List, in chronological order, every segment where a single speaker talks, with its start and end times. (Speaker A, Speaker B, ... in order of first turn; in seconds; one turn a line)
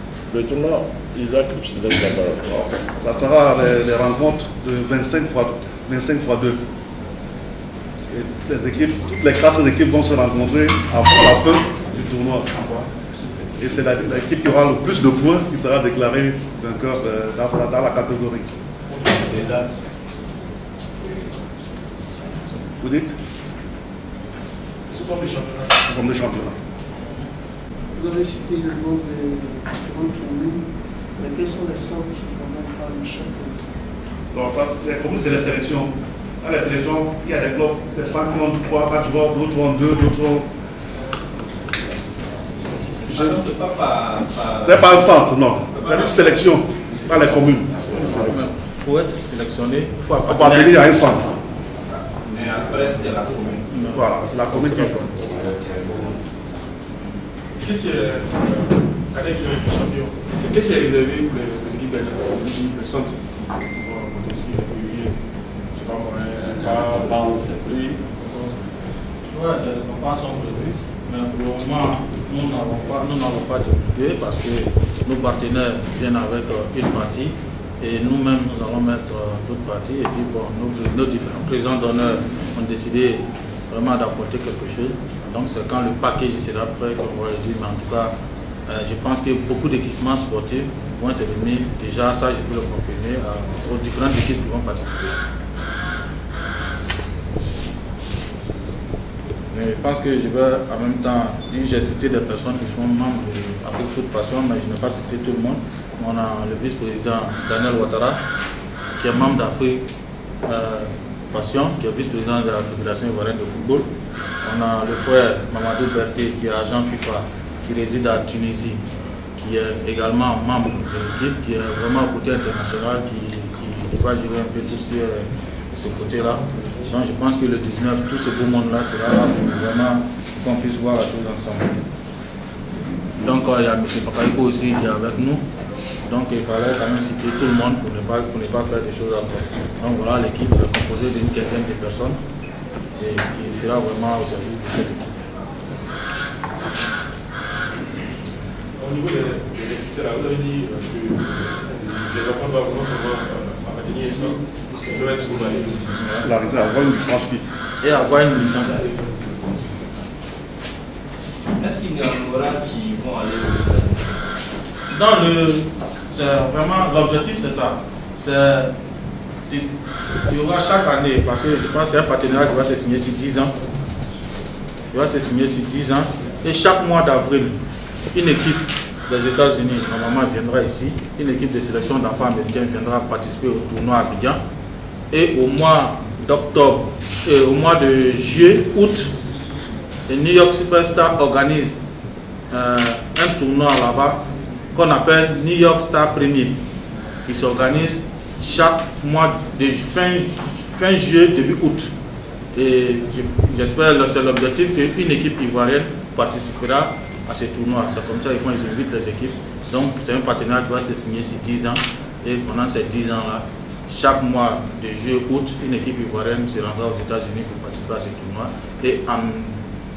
Speaker A: 0.3-2.5
Speaker B: 2.5-6.6
Speaker B: 8.0-12.9
Speaker B: 13.6-18.5
Speaker C: 18.9-19.6
Speaker B: 22.8-23.1
Speaker C: 24.9-25.8
Speaker B: 25.8-26.6
Speaker D: 28.0-30.6
Speaker D: 31.2-33.6
Speaker B: 34.3-40.5
Speaker E: 43.0-45.2
Speaker B: 44.6-48.3
Speaker E: 45.7-47.4
Speaker F: 47.9-51.1
Speaker A: 47.9-48.5
Speaker B: 50.3-51.4
Speaker E: 52.0-54.6
Speaker F: 53.7-54.0
Speaker B: 53.9-55.3
Speaker E: 55.2-56.2
Speaker C: 57.5-65.2
Speaker C: 65.7-68.8
Speaker F: 69.3-88.1
Speaker F: 88.7-95.2
Speaker F: 99.5-108.2
Speaker F: 109.0-109.8
Speaker F: 110.5-113.9
Speaker F: 114.4-118.8
Speaker F: 119.4-131.8
Speaker F: 133.2-135.4
Speaker F: 136.0-142.2
Speaker F: 143.0-145.2
Speaker C: 148.8-156.1
Speaker E: 154.3-155.9
Speaker B: 156.2-157.5
Speaker F: 157.8-159.0
Speaker E: 159.0-159.6
Speaker E: 161.6-164.2
Speaker F: 164.9-168.8
Speaker F: 169.5-173.5
Speaker F: 174.9-177.6
Speaker F: 178.1-184.4
Speaker F: 185.1-189.1
Speaker F: 190.1-191.8
Speaker F: 192.5-194.2
Speaker F: 194.7-196.6
Speaker F: 197.3-201.9
Speaker F: 202.6-219.6